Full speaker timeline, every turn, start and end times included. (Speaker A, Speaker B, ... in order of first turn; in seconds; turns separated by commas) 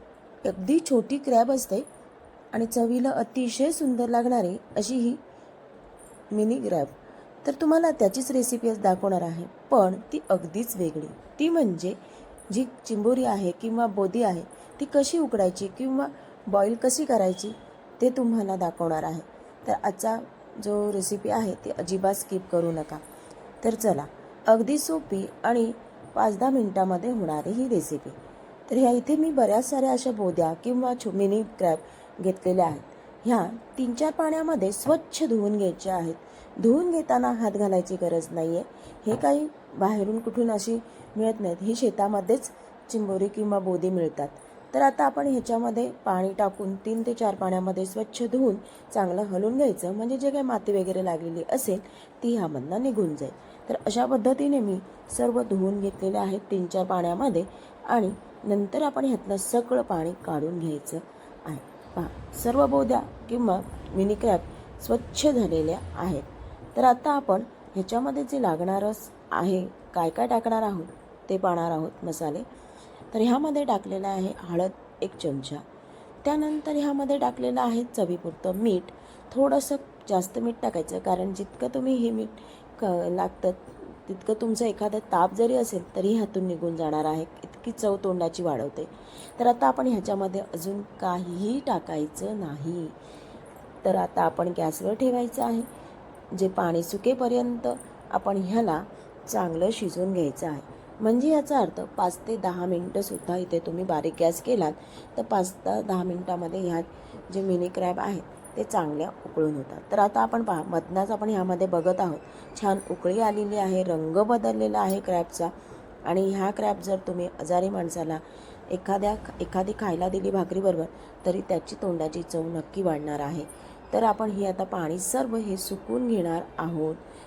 Speaker A: 0.4-1.9, Speaker A: 2.5-5.2, Speaker A: 6.3-23.0, Speaker A: 23.6-72.5, Speaker A: 73.1-75.7, Speaker A: 76.2-93.0, Speaker A: 93.8-95.7, Speaker A: 96.3-115.5, Speaker A: 116.1-127.0